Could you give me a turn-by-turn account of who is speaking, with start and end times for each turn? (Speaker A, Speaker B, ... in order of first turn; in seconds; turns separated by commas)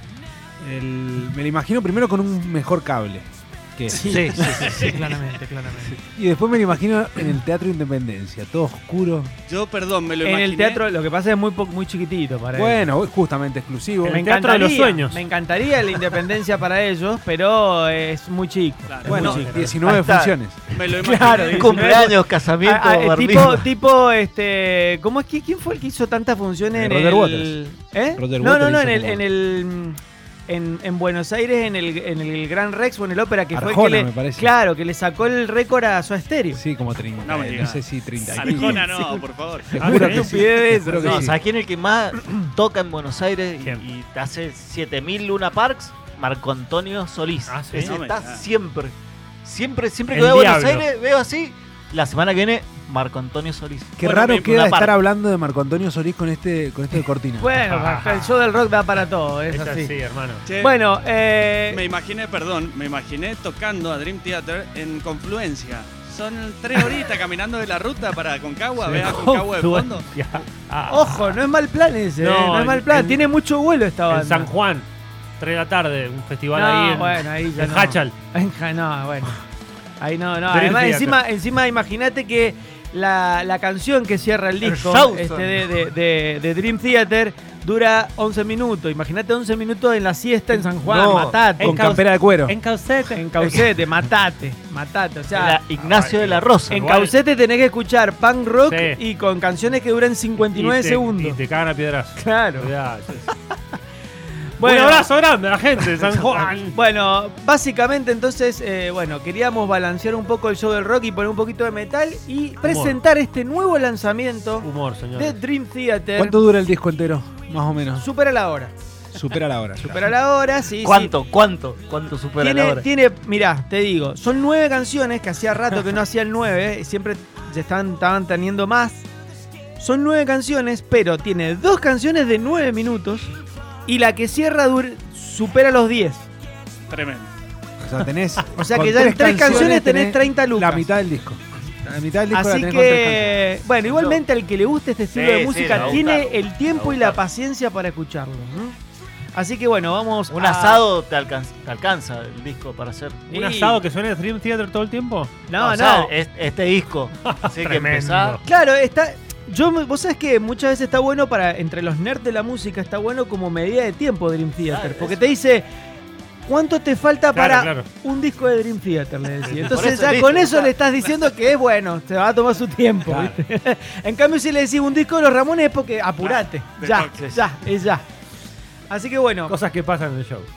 Speaker A: 0.6-4.8, Speaker B: 3.9-6.0, Speaker C: 4.1-4.8, Speaker A: 6.0-9.3, Speaker D: 9.5-10.8, Speaker B: 10.2-12.9, Speaker A: 12.6-14.2, Speaker B: 14.0-19.7, Speaker E: 14.1-15.2, Speaker D: 18.9-19.5, Speaker A: 19.1-20.6, Speaker E: 19.1-19.8, Speaker C: 19.8-20.4, Speaker D: 20.7-21.9, Speaker B: 21.0-36.6, Speaker C: 21.5-23.7, Speaker A: 26.7-27.6, Speaker A: 28.1-29.2, Speaker A: 33.5-34.5, Speaker A: 36.5-38.9, Speaker D: 37.2-39.8, Speaker E: 38.4-38.8, Speaker B: 38.9-39.2, Speaker A: 39.7-41.4, Speaker E: 39.8-40.4, Speaker B: 39.8-41.3, Speaker C: 41.0-55.0, Speaker E: 47.5-48.0, Speaker D: 47.7-48.5, Speaker E: 50.1-50.9, Speaker A: 54.0-57.5, Speaker B: 57.4-59.9, Speaker E: 57.7-58.4, Speaker E: 59.5-60.5, Speaker D: 60.5-60.8, Speaker B: 60.6-61.8, Speaker D: 61.7-70.1, Speaker E: 68.8-71.4, Speaker B: 70.9-74.5, Speaker E: 72.2-73.2, Speaker E: 74.1-74.9, Speaker E: 75.4-78.1, Speaker B: 76.5-79.4, Speaker B: 80.0-91.8, Speaker E: 80.5-81.2, Speaker C: 84.6-85.6, Speaker C: 90.8-91.5, Speaker E: 91.6-93.6, Speaker A: 91.6-92.6, Speaker B: 93.1-95.6, Speaker C: 95.3-96.8, Speaker E: 95.8-97.1, Speaker B: 96.7-101.4, Speaker E: 98.7-99.0, Speaker E: 100.4-103.3, Speaker B: 102.2-102.7, Speaker B: 104.6-105.1, Speaker E: 104.6-106.8, Speaker B: 106.0-116.4, Speaker E: 112.6-113.0, Speaker E: 114.6-115.4, Speaker A: 116.2-118.1, Speaker B: 118.0-118.7, Speaker A: 119.1-120.1, Speaker B: 119.8-121.1, Speaker C: 120.8-122.9, Speaker B: 122.4-129.1, Speaker B: 129.8-133.3, Speaker B: 133.9-136.3, Speaker D: 136.9-137.3, Speaker A: 137.8-143.4, Speaker B: 138.5-140.9, Speaker B: 142.3-148.8, Speaker C: 143.8-144.2, Speaker C: 145.1-147.2, Speaker B: 149.3-150.9, Speaker C: 150.3-153.3, Speaker B: 153.3-153.8, Speaker E: 153.3-155.3, Speaker B: 155.5-156.1, Speaker C: 155.6-158.4, Speaker E: 157.2-158.4, Speaker B: 158.4-165.7, Speaker C: 164.7-165.2, Speaker B: 166.5-178.0, Speaker E: 167.3-167.9, Speaker E: 169.4-169.8, Speaker C: 169.6-170.7, Speaker A: 173.1-173.4, Speaker D: 176.2-177.4, Speaker B: 178.9-179.6, Speaker E: 179.5-180.5